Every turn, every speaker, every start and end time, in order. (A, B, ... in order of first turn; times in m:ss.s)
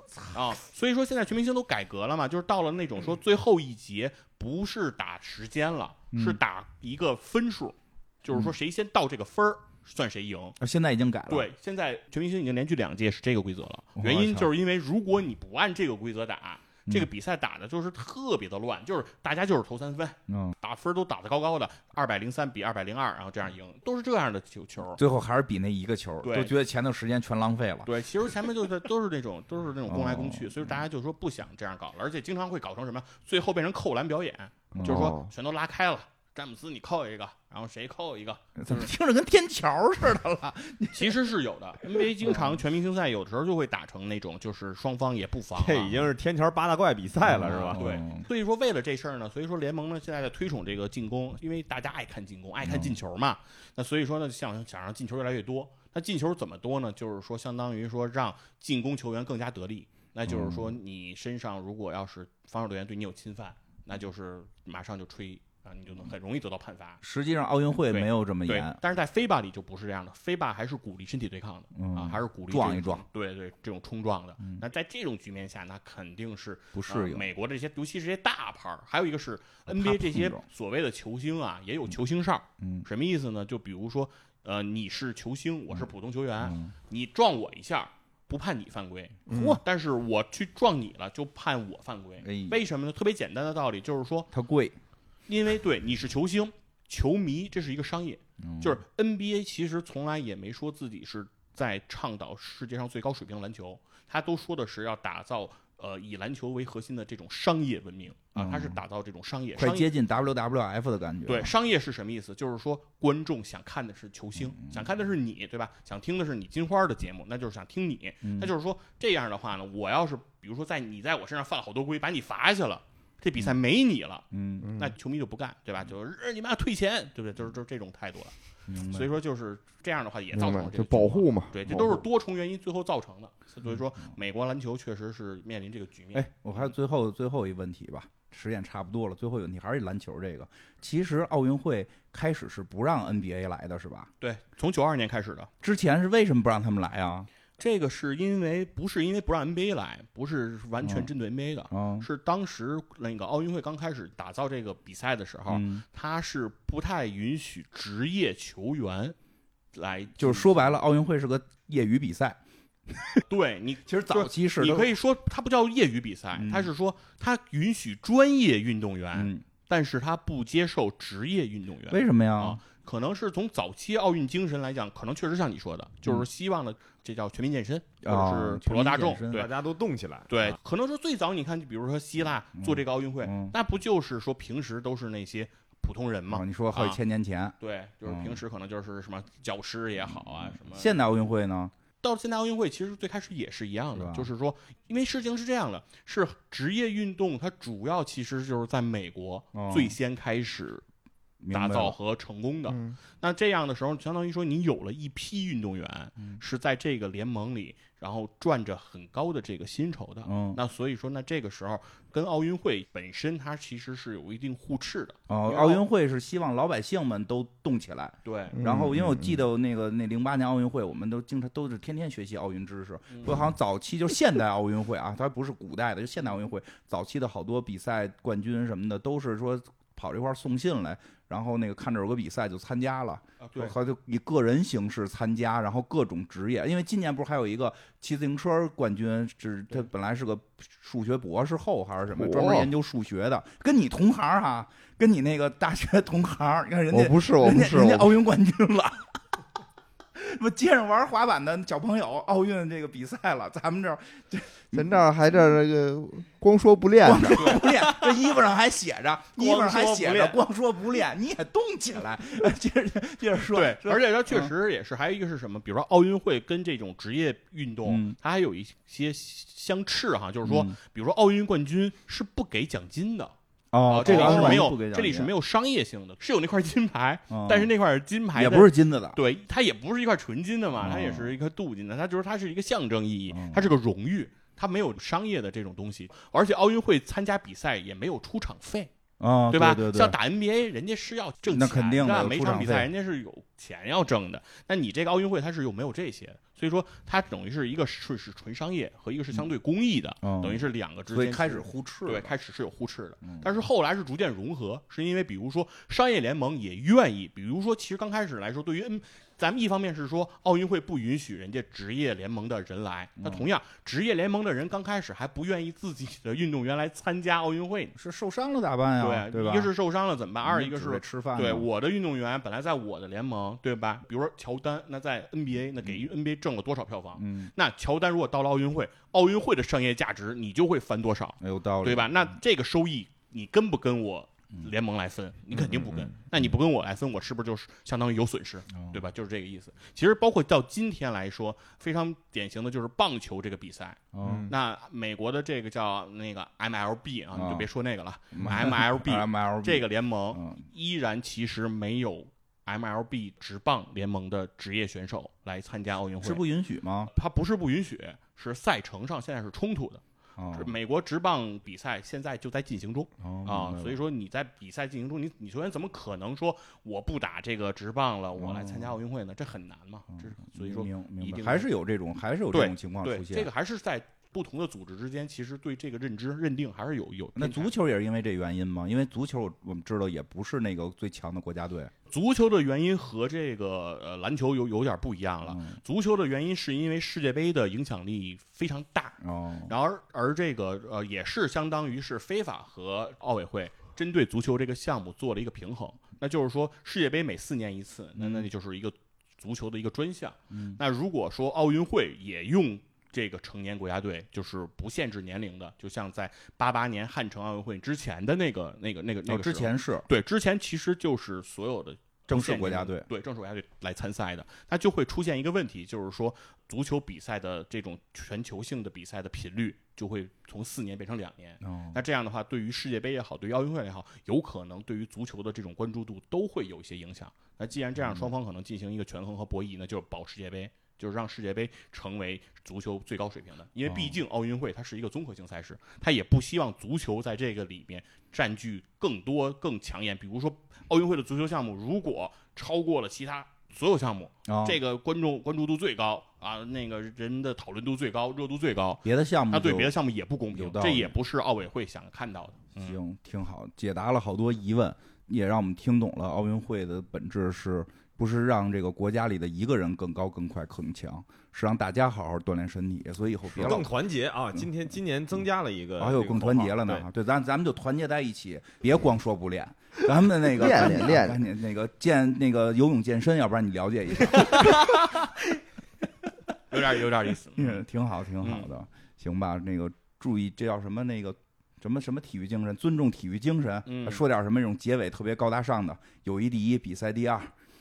0:00.3-0:10.6 A
0:06.1-0:06.4 B
0:10.6-0:11.5 B
0:11.3-0:25.0 A
0:14.0-0:14.5 B
0:20.3-0:20.6 B
0:24.9-0:27.9 B
0:26.2-0:26.5 A
0:27.8-0:38.9 A
0:29.9-0:30.7 B
0:34.7-0:35.2 B
0:34.8-0:35.3 C
0:38.6-0:41.2 B
0:40.9-0:46.0 A
0:41.8-0:42.6 B
0:45.5-0:47.8 D
0:47.2-0:48.2 B
0:47.4-1:07.0 A
0:52.6-0:53.0 B
1:00.3-1:00.7 B
1:07.0-1:08.8 B
1:07.9-1:34.3 A
1:11.7-1:13.0 B
1:16.7-1:17.3 B
1:19.7-1:20.4 B
1:22.6-1:22.8 B
1:26.4-1:26.7 B
1:29.3-1:29.6 B
1:29.3-1:29.6 C
1:32.2-1:32.6 B
1:34.3-1:34.8 B
1:35.3-1:49.9 A
1:38.4-1:38.8 B
1:48.4-1:48.8 B
1:49.6-1:51.5 B
1:51.2-2:08.4 A
1:54.4-1:54.9 B
1:58.2-1:58.5 B
2:04.3-2:04.7 B
2:04.6-2:04.9 C
2:08.7-2:09.1 B
2:08.9-2:16.7 A
2:10.3-2:12.0 C
2:13.6-2:14.1 B
2:16.1-2:24.1 B
2:24.2-2:25.5 A
2:25.6-2:27.3 B
2:27.6-2:39.2 A
2:30.8-2:31.1 B
2:31.7-2:32.1 B
2:35.5-2:35.8 B
2:39.7-2:40.7 A
2:40.2-2:43.2 B
2:43.3-2:59.3 A
2:43.8-2:44.9 B
2:46.3-2:46.7 B
2:49.1-2:49.4 B
2:51.9-2:52.6 B
2:58.0-2:59.5 B
2:59.3-3:00.6 D
3:00.3-3:07.0 A
3:02.5-3:03.5 B
3:06.3-3:08.4 B
3:07.6-3:11.0 A
3:10.0-3:11.7 B
3:12.0-3:20.8 A
3:13.9-3:14.3 B
3:19.5-3:20.0 B
3:21.4-3:22.0 B
3:21.5-3:35.8 A
3:22.7-3:23.0 C
3:30.2-3:30.6 B
3:35.3-4:09.4 B
3:38.2-3:38.6 A
3:38.6-3:39.4 C
3:43.1-3:43.4 A
3:53.4-3:53.7 A
4:02.2-4:02.7 C
4:06.9-4:08.1 C
4:10.1-4:15.4 B
4:14.7-4:17.7 C
4:17.0-4:24.5 B
4:19.4-4:20.4 D
4:23.5-4:33.3 A
4:27.8-4:28.2 B
4:30.4-4:30.8 B
4:33.7-4:35.3 B
4:33.9-4:48.9 A
4:37.3-4:37.7 B
4:38.3-4:39.2 B
4:40.8-4:41.3 B
4:43.3-4:43.7 B
4:49.2-4:50.2 B
4:49.5-5:17.9 A
4:51.5-4:52.9 B
5:00.2-5:02.3 B
5:03.2-5:03.5 B
5:13.2-5:13.5 B
5:17.9-5:19.7 B
5:19.0-5:56.4 A
5:20.4-5:21.7 B
5:27.2-5:27.5 B
5:31.4-5:32.3 B
5:35.5-5:36.4 B
5:44.1-5:44.5 B
5:44.2-5:44.5 C
5:47.3-5:47.7 B
5:48.3-5:50.6 B
5:56.2-5:57.1 B
5:57.1-6:11.7 A
6:00.4-6:00.7 B
6:03.2-6:04.0 B
6:08.4-6:09.0 B
6:10.1-6:13.5 B
6:12.5-6:17.7 A
6:17.3-6:21.9 B
6:22.1-7:33.0 A
6:25.4-6:25.8 B
6:29.2-6:29.7 B
6:38.2-6:38.5 B
6:40.5-6:40.8 B
6:49.3-6:50.1 B
6:52.3-6:53.1 B
7:01.6-7:02.0 B
7:08.0-7:08.3 B
7:13.8-7:14.2 B
7:24.4-7:24.8 B
7:29.0-7:29.9 B
7:30.5-7:31.1 B
7:32.8-7:43.9 B
7:43.5-7:47.0 D
7:46.0-7:55.2 B
7:50.5-7:51.4 C
7:56.7-7:57.8 A
7:57.6-8:07.5 B
7:58.4-7:58.7 A
8:03.8-8:04.2 A